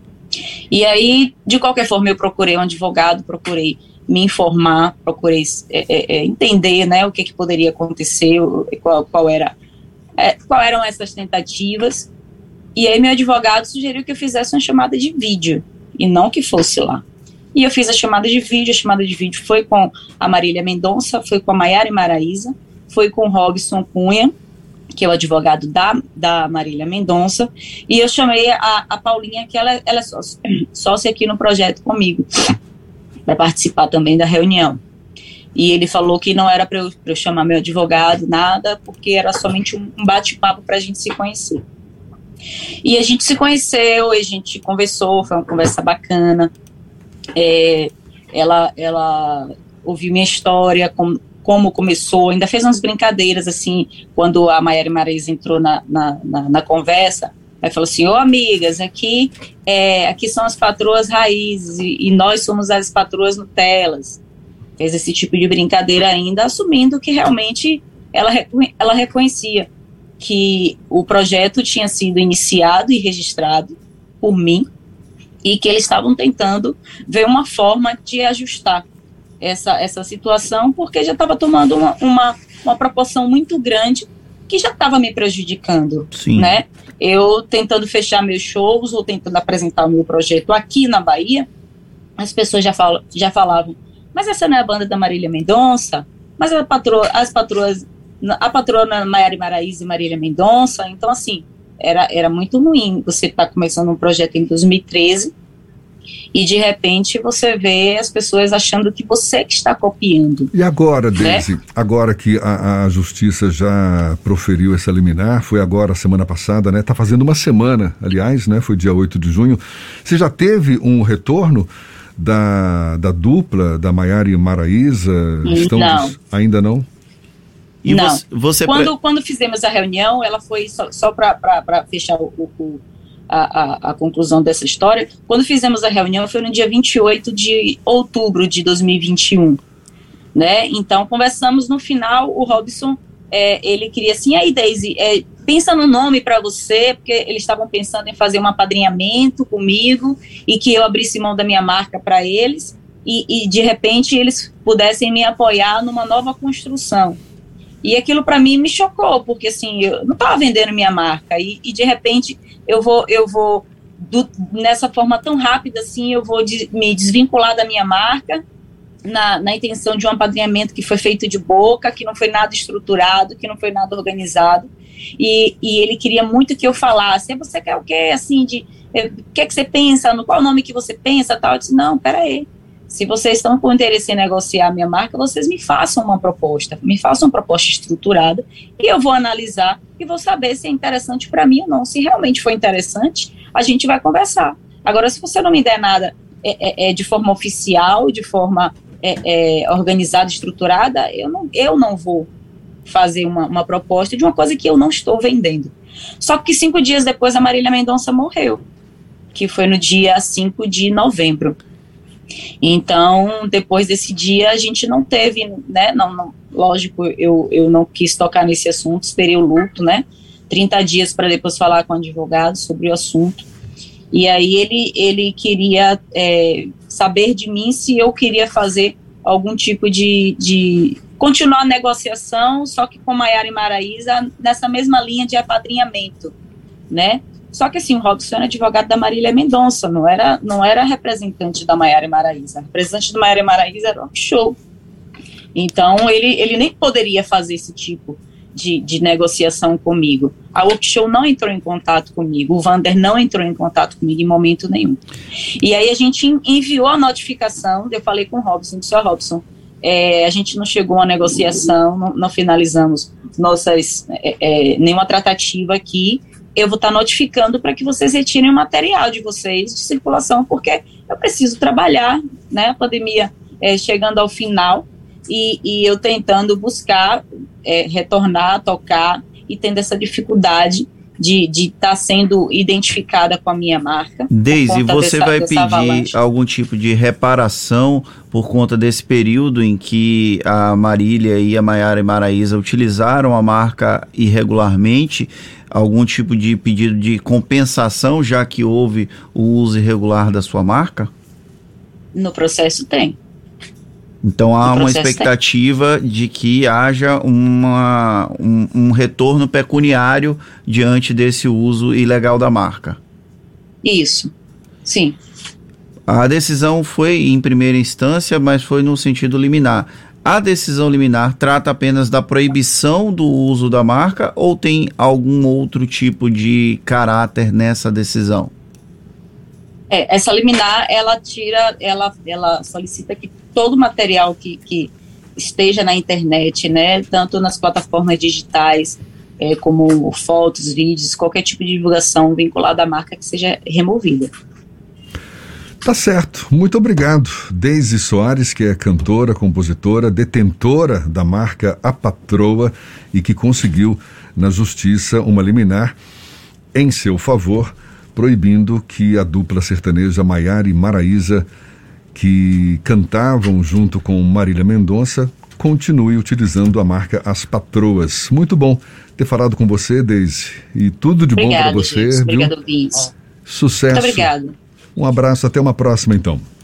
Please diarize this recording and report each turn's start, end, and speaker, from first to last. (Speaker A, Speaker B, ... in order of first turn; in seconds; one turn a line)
Speaker A: 0.7-9.5
Speaker A: 10.2-12.1
Speaker A: 12.8-17.0
Speaker A: 17.5-24.3
Speaker A: 24.9-32.5
Speaker A: 33.3-34.8
Speaker A: 35.5-41.6
Speaker A: 42.8-46.5
Speaker A: 47.4-64.2
Speaker A: 64.8-69.7
Speaker A: 70.2-74.7
Speaker A: 75.4-78.8
Speaker A: 79.4-91.5
Speaker B: 86.1-86.6
Speaker A: 92.2-105.3
Speaker A: 106.3-110.5
Speaker C: 110.5-126.8
Speaker A: 111.2-111.4
Speaker A: 125.4-126.1
Speaker B: 127.8-128.9
Speaker A: 127.8-139.6
Speaker A: 140.3-157.2
Speaker A: 157.8-168.4
Speaker A: 169.0-202.3
Speaker A: 202.8-208.6
Speaker A: 209.3-211.6
Speaker A: 212.6-223.5
Speaker A: 224.1-236.3
Speaker A: 236.9-244.6
Speaker A: 245.5-255.0
Speaker A: 255.6-286.1
Speaker B: 284.3-301.1
Speaker A: 302.1-303.2
Speaker B: 304.2-313.0
Speaker A: 304.6-305.3
Speaker A: 313.8-314.3
Speaker A: 314.8-315.1
Speaker B: 316.1-328.5
Speaker A: 329.9-344.3
Speaker C: 345.8-355.9
Speaker C: 356.7-361.4
Speaker C: 362.1-372.5
Speaker A: 371.4-373.1
Speaker C: 373.4-374.3
Speaker A: 373.9-374.5
Speaker C: 374.9-376.4